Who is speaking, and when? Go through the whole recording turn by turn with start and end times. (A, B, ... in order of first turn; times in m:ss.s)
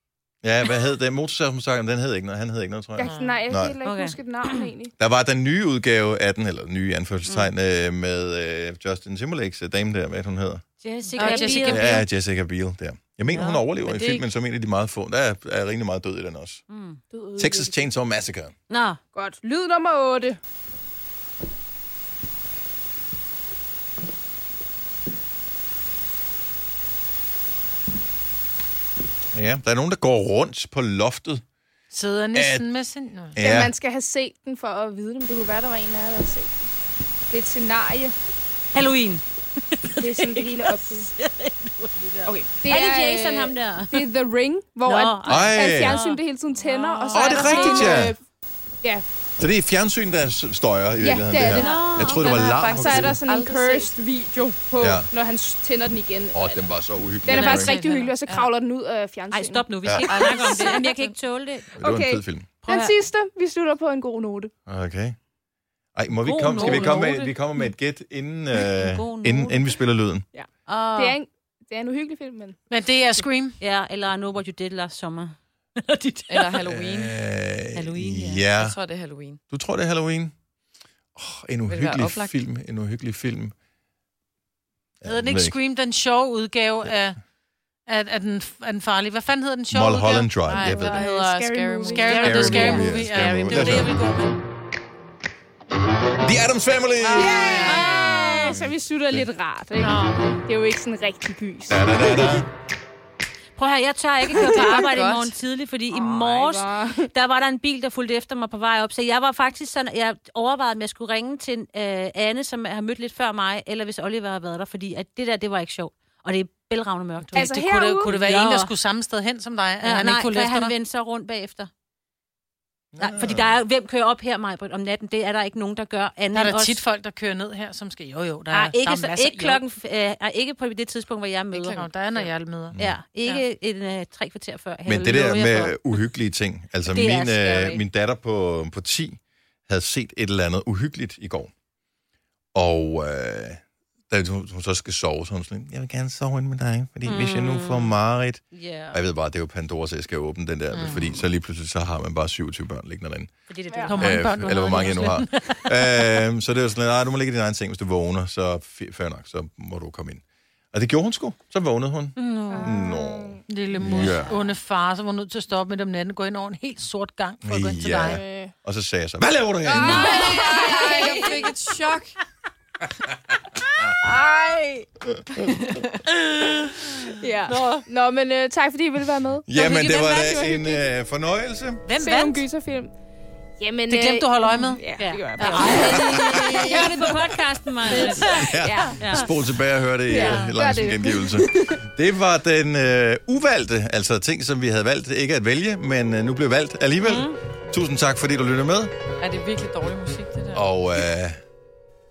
0:00.4-0:03.7 A
0:03.0-0:04.9 B
0:03.0-0:03.3 C
0:03.8-0:04.7 D
0:05.0-0:10.6 A
0:10.8-0:12.0 D
0:11.1-0:12.0 E
0:11.2-0:11.6 C
0:11.5-0:16.6 A
0:13.3-0:13.6 D
0:13.8-0:14.2 C
0:16.7-0:17.0 D
0:17.1-0:17.7 B
0:17.4-0:18.5 A
0:18.7-0:19.0 D
0:19.1-0:20.4 B
0:29.3-0:31.4 A
0:31.9-0:33.4 E
0:32.3-0:32.6 A
0:33.3-0:33.7 A
0:33.4-0:36.7 B
0:37.3-0:38.1 B
0:38.7-0:44.1 D
0:40.0-0:41.1 B
0:42.2-0:48.2 B
0:44.8-0:48.1 D
0:45.2-0:46.0 A
0:47.1-0:48.2 A
0:49.4-0:53.2 A
0:51.0-0:56.7 B
0:51.5-0:52.4 D
0:51.6-0:53.9 C
0:54.8-0:55.1 A
0:56.3-0:57.7 A
0:57.2-1:01.0 B
0:57.3-0:58.1 E
0:57.4-0:57.8 D
0:59.3-1:01.8 D
0:59.8-1:00.1 A
1:00.0-1:01.2 C
1:01.7-1:02.5 A
1:01.8-1:04.5 B
1:02.6-1:02.9 D
1:04.7-1:05.2 A
1:05.9-1:10.2 A
1:06.2-1:07.3 D
1:06.5-1:07.0 E
1:08.6-1:09.6 D
1:10.3-1:12.6 B
1:10.7-1:11.2 D
1:12.7-1:13.6 E
1:13.6-1:16.6 D
1:16.3-1:17.1 C
1:16.6-1:18.8 A
1:17.7-1:18.5 D
1:18.5-1:19.4 C
1:19.5-1:20.3 A
1:21.2-1:23.5 A
1:21.7-1:22.3 C
1:25.0-1:25.6 A
1:25.0-1:27.2 E
1:27.9-1:30.3 E
1:29.7-1:31.0 A
1:30.5-1:32.9 C
1:30.6-1:32.9 B
1:31.9-1:34.3 E
1:32.2-1:34.0 A
1:33.5-1:34.1 D
1:36.2-1:39.2 A
1:37.0-1:38.2 C
1:37.1-1:42.0 B
1:37.6-1:38.6 D
1:39.9-1:40.2 D
1:41.7-1:42.5 A
1:43.6-1:58.7 D
1:44.3-1:44.9 B
1:44.3-1:45.4 C
1:45.9-1:47.1 B
1:57.2-2:00.7 E
1:57.3-1:58.1 B
1:59.8-2:01.7 D
2:02.9-2:03.6 A
2:03.0-2:06.8 D
2:06.3-2:09.6 E
2:08.5-2:11.8 D
2:11.5-2:12.3 C
2:11.7-2:13.4 E
2:12.8-2:16.0 D
2:14.8-2:21.5 A
2:16.8-2:17.8 D
2:22.5-2:33.3 A
2:27.0-2:27.9 D
2:28.5-2:29.0 D
2:30.7-2:31.2 E
2:33.5-2:35.6 D
2:33.7-2:33.9 B
2:33.9-2:35.6 E
2:34.0-2:44.3 A
2:42.2-2:42.6 D
2:42.5-2:43.4 B
2:43.5-2:48.2 E
2:47.4-2:50.4 A
2:48.0-2:48.5 B
2:49.6-2:51.5 B
2:49.8-2:51.2 D
2:49.9-2:52.2 C
2:54.0-2:54.8 C
2:54.0-2:54.8 B
2:55.3-2:56.0 C
2:57.0-3:00.9 B
2:57.5-2:57.8 E
2:59.5-3:01.8 A
3:01.8-3:02.4 E
3:01.9-3:02.9 B
3:03.6-3:06.9 B
3:03.9-3:04.8 E
3:04.9-3:09.3 D
3:05.4-3:06.9 E
3:06.8-3:07.3 A
3:07.9-3:09.3 B
3:07.9-3:08.3 E
3:08.2-3:18.9 A
3:10.1-3:11.8 B
3:17.0-3:17.3 D
3:19.2-3:20.7 C
3:20.5-3:21.4 A